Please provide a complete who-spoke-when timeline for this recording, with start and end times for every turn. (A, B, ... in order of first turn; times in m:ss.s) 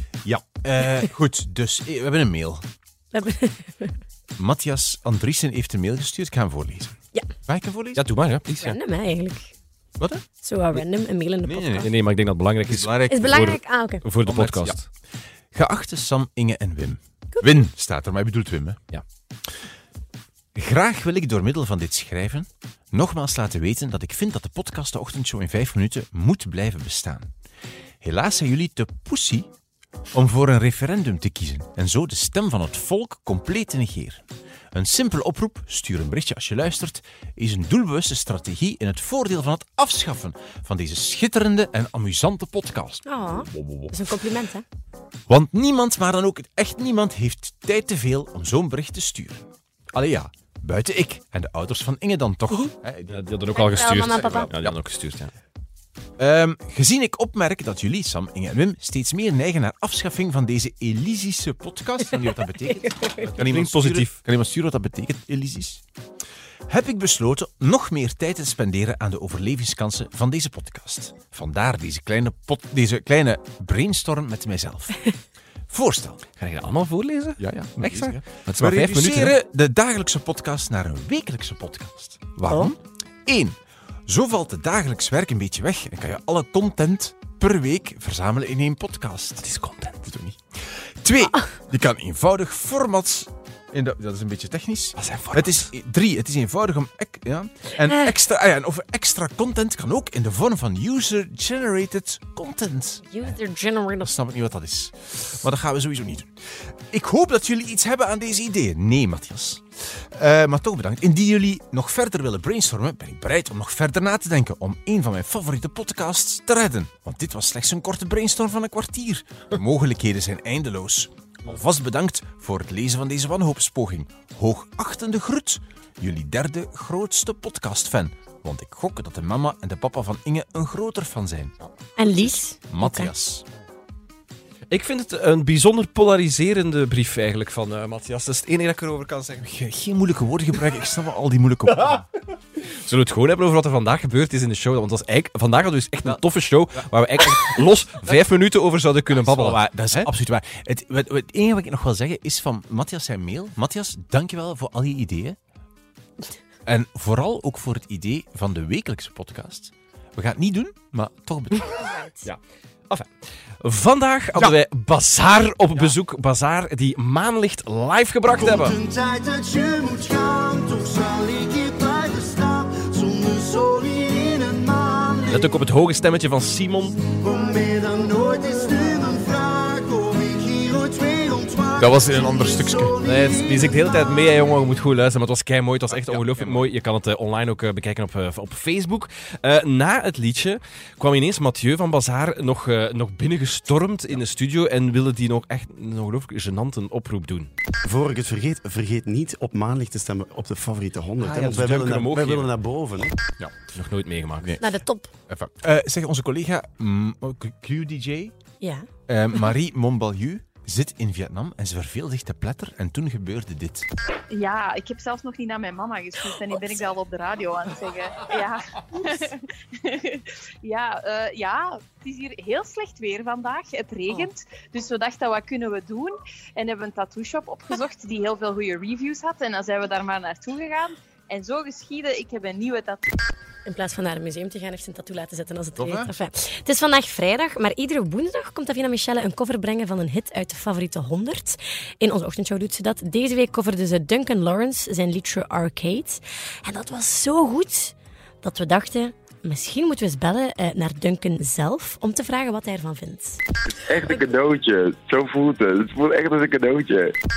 0:00.2-0:02.6 A
0:03.1-0:04.0 B
0:04.4-0:08.0 A
0:08.0-0:08.8 C
0:08.6-0:09.5 B
0:10.4-0:11.9 B
0:11.4-0:11.9 A
0:11.8-0:14.8 C
0:12.6-0:13.5 A
0:13.1-0:14.0 B
0:14.2-0:14.8 A
0:15.5-0:18.8 A
0:20.6-0:27.3 A
0:28.0-0:29.5 A
0:30.1-0:43.9 A
0:43.1-0:44.6 B
0:45.3-0:53.2 A
0:53.1-0:55.3 C
0:53.5-0:54.5 B
0:53.9-0:54.7 A
0:56.2-1:05.8 A
1:02.8-1:03.3 B
1:03.2-1:04.2 C
1:06.7-1:15.1 A
1:15.7-1:16.2 A
1:16.4-1:19.4 C
1:17.4-1:23.6 A
1:24.1-1:29.4 A
1:29.4-1:30.0 C
1:30.0-1:43.3 A
1:35.0-1:35.7 C
1:43.0-1:44.1 B
1:44.0-2:11.5 A
2:12.0-2:13.1 B
2:12.0-2:13.4 A
2:14.7-2:19.4 C
2:19.4-2:22.1 A
2:22.6-2:30.1 C
2:27.2-2:28.2 A
2:29.1-2:35.4 A
2:36.7-2:41.8 A
2:41.6-2:42.3 B
2:43.6-2:48.8 C
2:48.4-2:55.5 D
2:55.3-2:57.1 C
2:57.2-3:03.8 D
3:01.8-3:03.0 A
3:03.0-3:17.5 C
3:05.9-3:06.7 A
3:17.8-3:23.2 D
3:21.2-3:22.5 C
3:23.4-3:23.7 A
3:23.7-3:24.5 C
3:24.4-3:24.7 A
3:24.6-3:25.1 B
3:25.3-3:28.4 A
3:28.6-3:28.9 B
3:29.1-3:33.9 A
3:34.3-3:53.1 E
3:53.6-4:13.4 B
3:55.8-3:56.1 A
4:13.8-4:17.2 F
4:14.0-4:14.3 B